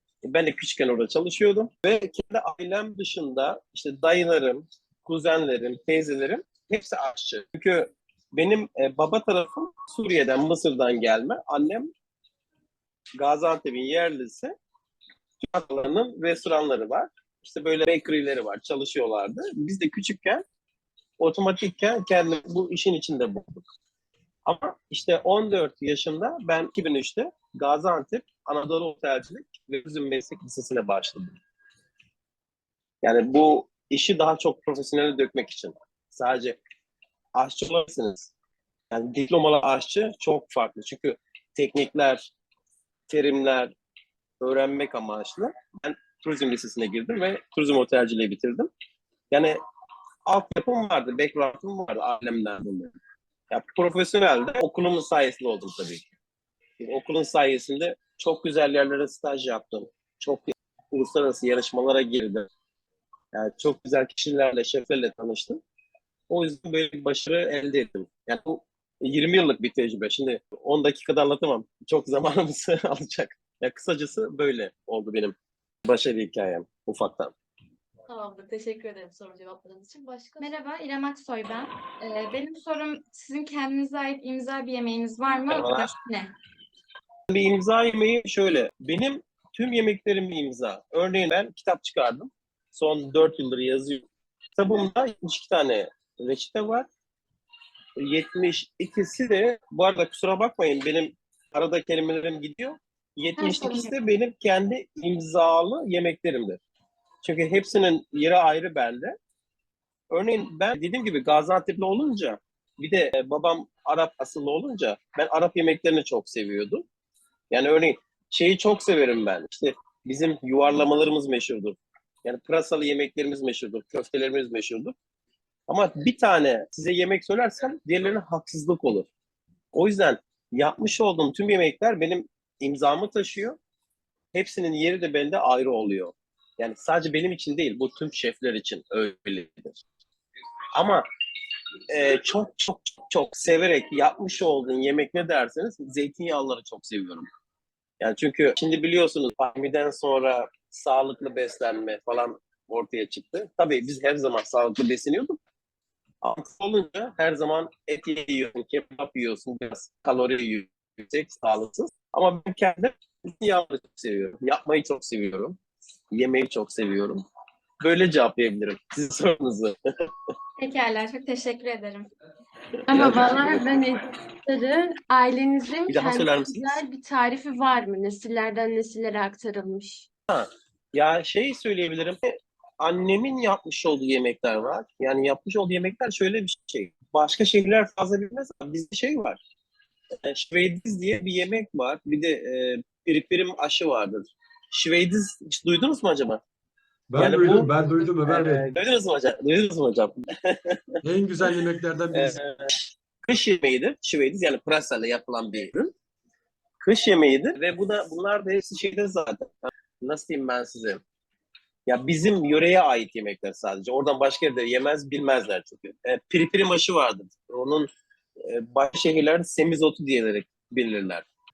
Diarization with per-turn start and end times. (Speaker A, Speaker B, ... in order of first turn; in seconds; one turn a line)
Speaker A: 0.2-11.9
Speaker A: 13.2-14.5
Speaker A: 15.4-20.4
Speaker A: 21.2-23.6
Speaker A: 24.4-31.4
Speaker A: 33.0-36.6
Speaker A: 37.4-38.3
Speaker A: 38.9-42.3
Speaker A: 43.1-43.7
Speaker A: 44.4-48.7
Speaker A: 49.3-49.6
Speaker A: 50.2-52.9
Speaker A: 53.5-56.1
Speaker A: 56.8-62.5
Speaker A: 63.3-65.6
Speaker A: 66.3-77.3
Speaker B: 78.1-80.6
Speaker C: 80.4-86.3
Speaker A: 85.5-85.9
Speaker A: 87.3-94.0
Speaker A: 94.6-96.9
Speaker A: 98.0-106.6
Speaker C: 103.4-103.9
Speaker A: 107.2-109.2
Speaker A: 110.1-116.8
Speaker A: 117.5-124.9
Speaker A: 125.7-129.1
Speaker A: 129.7-133.6
Speaker A: 134.3-139.8
Speaker A: 140.7-141.1
Speaker A: 141.9-147.3
Speaker A: 148.0-155.4
Speaker A: 156.2-165.6
Speaker A: 166.1-167.2
Speaker A: 167.8-169.8
Speaker C: 170.6-172.1
Speaker D: 172.9-180.1
Speaker A: 172.9-173.7
Speaker A: 175.9-176.8
Speaker A: 180.3-189.4
Speaker A: 190.2-196.4
Speaker E: 197.1-198.7
Speaker A: 197.2-197.7
Speaker A: 198.2-201.6
Speaker E: 201.0-202.4
Speaker A: 202.1-205.9
Speaker A: 206.8-211.0
Speaker A: 211.9-217.9
Speaker A: 218.4-221.2